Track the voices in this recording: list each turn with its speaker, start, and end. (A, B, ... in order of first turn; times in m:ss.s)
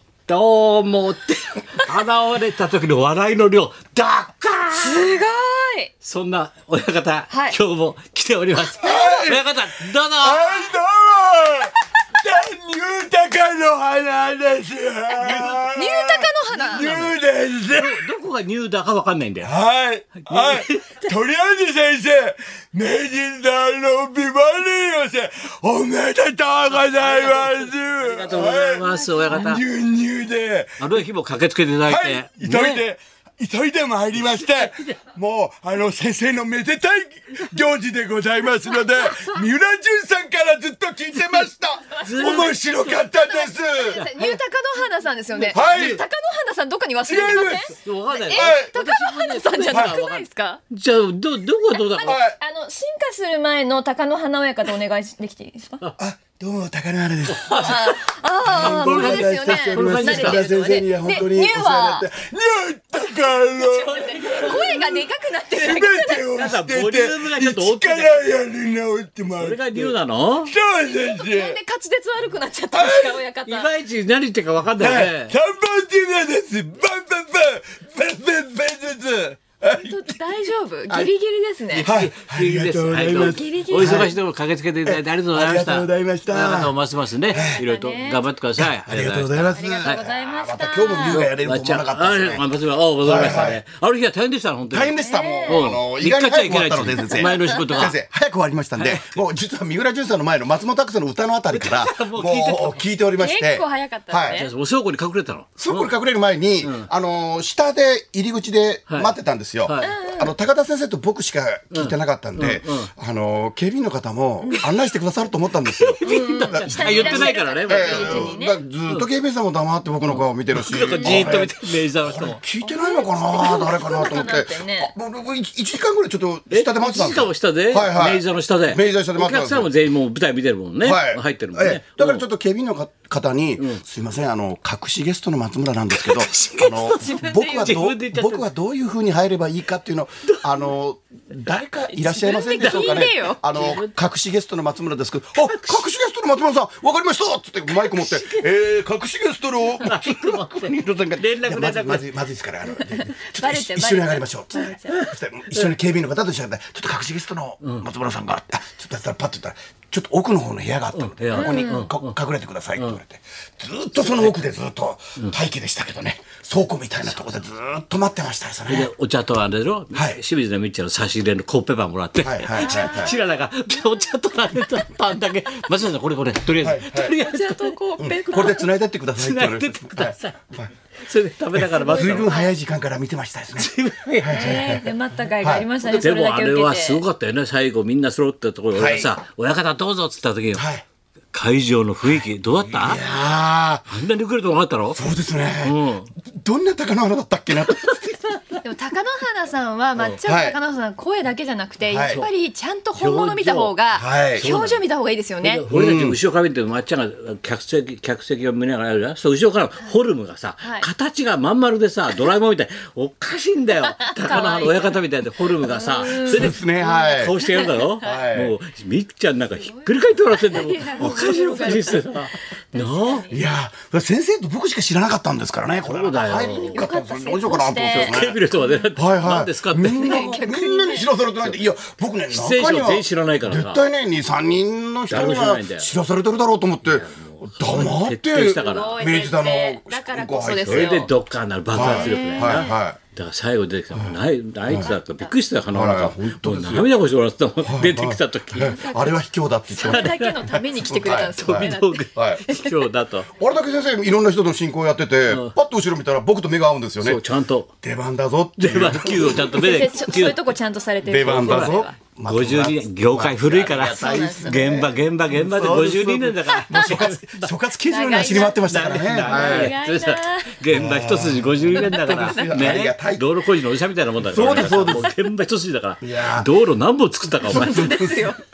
0:00.3-0:05.1 A
0:04.7-0:05.9 B
0:06.0-0:10.7 A
0:07.3-0:07.6 B
0:08.8-0:18.1 C
0:08.8-0:09.2 B
0:15.1-0:16.9 B
0:15.2-0:15.6 A
0:16.7-0:17.2 A
0:17.7-0:19.5 A
0:19.4-0:31.0 C
0:20.2-0:21.1 A
0:26.7-0:29.6 A
0:28.6-0:29.5 B
0:30.8-0:32.8 A
0:31.9-0:44.0 C
0:34.1-0:35.0 A
0:38.6-0:39.5 B
0:41.9-0:50.6 B
0:42.0-0:43.0 A
0:43.9-0:44.4 A
0:45.4-0:45.8 A
0:45.5-0:46.0 C
0:47.1-0:47.7 C
0:47.2-0:52.2 A
0:48.3-0:48.7 C
0:49.7-0:49.9 C
0:51.6-0:55.8 B
0:52.0-0:52.4 C
0:56.0-0:57.9 C
0:57.3-1:00.4 A
0:57.6-1:02.0 B
0:58.4-1:11.6 C
1:03.0-1:06.4 B
1:04.0-1:04.8 A
1:06.3-1:08.4 A
1:09.4-1:10.5 A
1:10.8-1:13.7 B
1:12.7-1:13.2 C
1:13.4-1:15.3 A
1:14.8-1:20.2 C
1:19.7-1:21.9 B
1:21.7-1:30.1 A
1:21.8-1:24.1 C
1:23.2-1:24.1 B
1:24.8-1:26.7 C
1:27.3-1:27.6 C
1:27.6-1:28.3 B
1:28.6-1:32.4 C
1:29.5-1:31.3 B
1:30.9-1:38.0 A
1:33.0-1:33.6 C
1:34.7-1:44.4 C
1:34.9-1:35.7 B
1:37.2-1:37.9 B
1:38.8-1:39.2 A
1:41.5-1:42.8 A
1:43.2-1:44.5 B
1:44.3-1:45.9 A
1:45.6-1:56.0 C
1:46.6-1:46.9 A
1:48.9-1:50.0 A
1:49.8-1:50.3 B
1:51.7-1:52.9 A
1:55.6-1:58.3 A
1:56.0-1:58.6 B
1:56.5-2:09.7 C
2:00.1-2:02.4 A
2:00.7-2:01.4 B
2:02.6-2:04.9 B
2:06.5-2:12.2 A
2:10.8-2:48.9 C
2:13.6-2:13.8 A
2:15.9-2:18.5 A
2:16.9-2:17.7 B
2:20.3-2:20.6 A
2:22.0-2:23.9 A
2:22.2-2:23.4 B
2:25.5-2:25.9 A
2:27.7-2:28.5 A
2:29.8-2:32.1 A
2:32.7-2:35.0 B
2:34.9-2:35.7 A
2:37.6-2:37.9 A
2:40.9-2:42.1 A
2:41.3-2:41.9 B
2:44.0-2:44.4 A
2:48.7-2:57.7 A
2:49.9-2:50.2 C
2:52.2-2:53.1 C
2:52.6-2:54.1 B
2:56.6-2:57.2 C
2:57.2-2:58.6 B
2:58.0-3:00.7 C
2:59.2-3:00.5 A
3:01.0-3:02.3 A
3:01.5-3:04.8 C
3:01.8-3:02.5 B
3:03.6-3:04.6 A
3:04.3-3:07.0 B
3:05.4-3:05.6 C
3:05.8-3:10.7 A
3:08.7-3:09.1 C
3:10.5-3:10.8 C
3:11.3-3:13.0 A
3:12.0-3:13.9 C
3:13.9-3:15.0 A
3:14.9-3:18.2 C
3:15.6-3:16.1 A
3:17.6-3:18.5 A
3:18.6-3:25.6 B
3:20.2-3:20.6 C
3:21.8-3:22.2 C
3:23.0-3:23.7 A
3:23.9-3:24.5 C
3:24.4-3:24.8 A
3:25.4-3:43.3 A
3:25.7-3:26.2 C
3:30.6-3:30.9 B
3:33.9-3:35.0 B
3:35.6-3:38.2 B
3:36.3-3:37.3 C
3:38.0-3:38.6 C
3:39.6-3:43.4 B
3:43.3-3:48.4 C
3:45.8-3:46.9 A
3:46.4-3:48.9 B
3:47.8-3:50.3 A
3:48.9-4:01.0 C
3:50.0-3:51.1 B
3:52.3-3:53.8 A
3:55.1-3:55.9 A
3:56.8-3:59.1 A
3:58.4-4:01.1 B
4:00.4-4:08.8 A
4:01.7-4:03.0 C
4:01.8-4:02.8 B
4:04.8-4:05.4 B
4:05.7-4:06.9 C
4:07.6-4:12.4 C
4:08.5-4:09.2 B
4:09.7-4:12.9 B
4:09.8-4:10.3 A
4:11.1-4:13.3 A
4:13.3-4:17.2 C
4:15.3-4:15.5 A
4:17.0-4:17.7 A
4:17.8-4:19.9 C
4:18.6-4:20.4 A
4:19.4-4:22.0 B
4:21.0-4:29.7 C
4:21.2-4:27.5 A
4:23.9-4:24.9 B
4:26.5-4:26.8 B
4:27.9-4:28.6 B
4:28.2-4:38.0 A
4:29.2-4:30.6 B
4:30.7-4:33.2 C
4:31.8-4:32.7 B
4:34.3-4:35.1 C
4:34.4-4:35.1 B
4:36.0-4:36.5 C
4:37.4-4:38.4 B
4:37.5-4:38.3 C